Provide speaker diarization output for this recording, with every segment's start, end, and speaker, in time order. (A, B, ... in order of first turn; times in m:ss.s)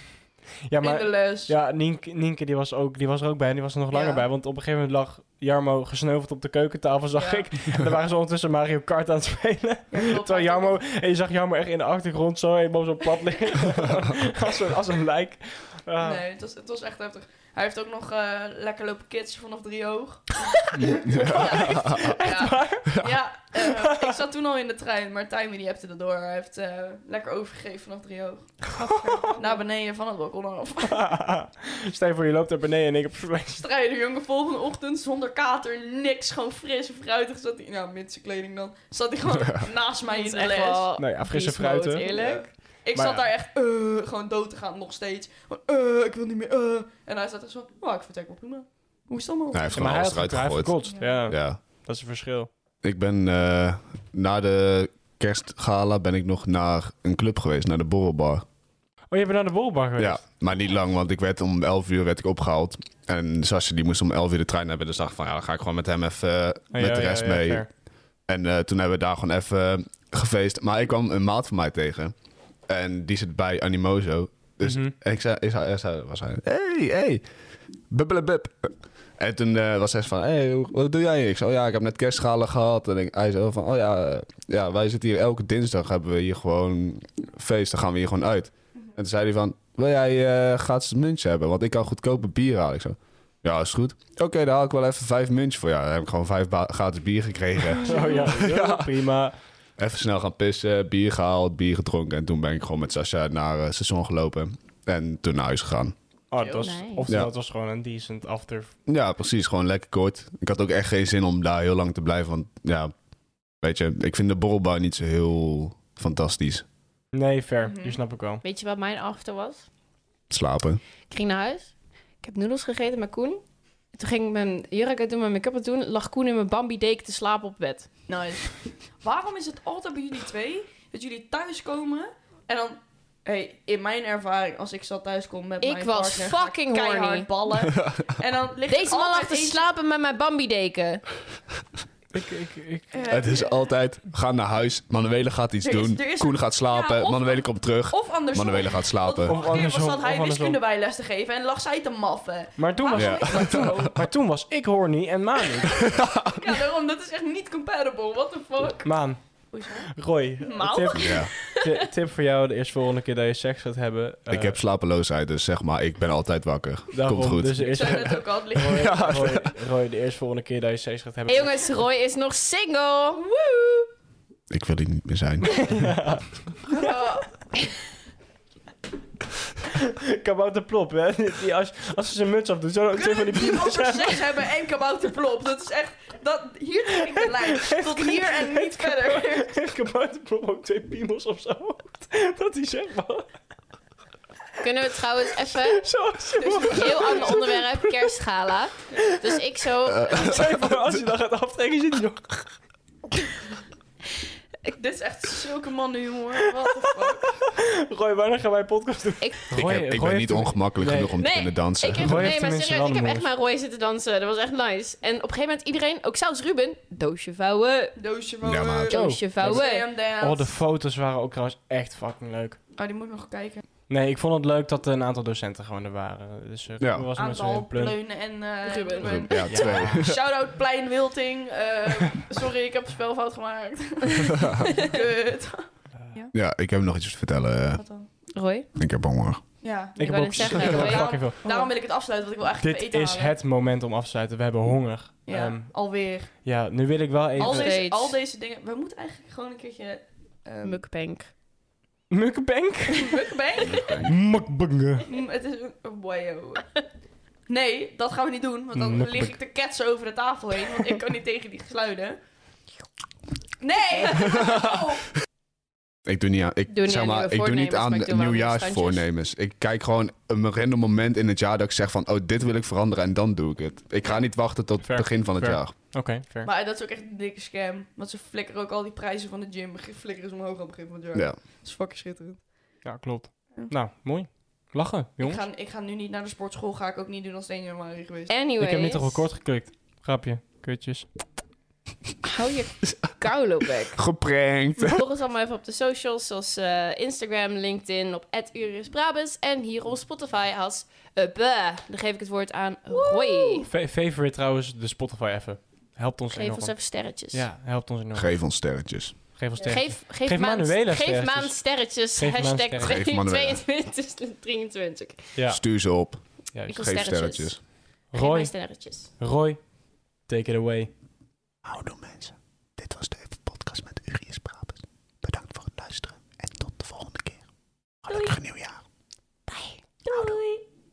0:00.7-0:16.2 A
0:00.8-0:01.5 B
0:03.9-0:04.2 B
0:07.1-0:07.5 B
0:09.9-0:10.8 B
0:16.0-0:31.1 B
0:20.8-0:22.1 C
0:21.3-0:24.1 A
0:28.8-0:29.4 A
0:30.9-0:33.6 A
0:33.6-0:40.9 B
0:40.1-0:42.5 D
0:41.0-0:42.2 A
0:42.0-0:49.6 B
0:42.9-0:43.3 A
0:49.5-0:51.6 C
0:49.7-0:52.5 A
0:50.8-0:51.3 B
0:52.8-0:58.4 C
0:59.1-1:00.2 A
1:00.0-1:07.7 C
1:06.7-1:07.7 A
1:08.3-1:12.1 C
1:12.6-1:17.2 C
1:14.6-1:14.9 A
1:17.9-1:38.9 C
1:37.8-1:39.3 A
1:39.8-1:45.9 C
1:46.3-1:48.7 A
1:46.4-1:46.7 B
1:46.6-1:47.1 D
1:48.9-1:52.9 C
1:53.6-1:56.6 C
1:57.1-1:58.4 A
1:57.6-1:58.0 B
1:58.4-1:59.7 D
2:00.3-2:00.8 C
2:01.1-2:07.9 D
2:08.1-2:19.6 B
2:15.6-2:17.3 D
2:18.7-2:21.0 D
2:22.1-2:23.0 A
2:22.9-2:23.7 B
2:23.1-2:29.4 C
2:25.6-2:33.9 B
2:29.2-2:30.6 A
2:32.6-2:35.9 A
2:32.9-2:34.0 C
2:36.2-2:39.9 B
2:38.8-2:44.6 A
2:40.4-2:41.4 B
2:41.0-2:41.3 C
2:44.3-2:49.5 C
2:46.9-2:51.7 A
2:47.6-2:49.4 B
2:51.2-2:53.2 D
2:53.2-2:53.9 B
2:54.5-2:56.0 C
2:55.4-2:56.3 A
2:56.7-2:57.5 B
2:59.8-3:04.4 A
3:02.9-3:09.5 B
3:07.3-3:13.3 A
3:14.6-3:15.9 D
3:15.7-3:17.9 A
3:16.4-3:17.5 B
3:16.7-3:20.4 D
3:19.9-3:21.0 C
3:20.1-3:22.6 A
3:24.7-3:27.5 B
3:27.2-3:31.2 A
3:29.5-3:32.3 C
3:31.2-3:38.0 D
3:31.9-3:33.3 A
3:38.0-3:40.6 B
3:38.4-3:39.1 C
3:38.9-3:39.8 D
3:38.9-3:39.6 A
3:40.2-3:42.6 A
3:42.7-3:43.6 B
3:43.9-3:48.0 A
3:46.8-3:47.1 C
3:47.2-3:56.3 B
3:48.6-3:49.8 D
3:49.0-3:50.2 C
3:49.5-3:50.0 A
3:56.3-3:57.8 C
3:57.8-3:58.1 B
3:58.3-3:58.7 D
3:58.8-3:59.4 C
3:59.6-4:03.3 B
4:00.0-4:01.6 A
4:00.0-4:01.7 D
4:02.6-4:07.8 A
4:05.2-4:06.3 B
4:07.4-4:10.8 B
4:07.4-4:08.2 D
4:10.6-4:11.3 D
4:12.1-4:15.1 A
4:12.9-4:14.0 B
4:13.7-4:14.1 C
4:15.1-4:16.8 B
4:17.5-4:22.2 B
4:18.7-4:19.3 A
4:23.6-4:25.0 B
4:26.0-4:35.7 C
4:26.7-4:29.0 D
4:34.8-4:36.5 A
4:36.4-4:42.5 B
4:42.8-4:45.4 A
4:45.2-4:48.3 B
4:48.3-4:49.3 D
4:48.6-4:51.1 A
4:52.2-4:54.0 D
4:53.9-4:55.0 C
4:54.8-5:03.7 D
5:02.9-5:03.7 B
5:03.7-5:08.4 A
5:06.3-5:07.4 D
5:08.1-5:09.2 C
5:09.4-5:13.0 A
5:09.6-5:15.3 D
5:12.8-5:13.6 C
5:15.4-5:15.6 A
5:15.5-5:17.6 C
5:16.7-5:19.1 D
5:18.1-5:19.6 A
5:20.2-5:20.9 A
5:21.6-5:27.4 C
5:28.0-5:28.8 C
5:28.1-5:28.3 B
5:29.5-5:29.8 D
5:30.0-5:30.6 B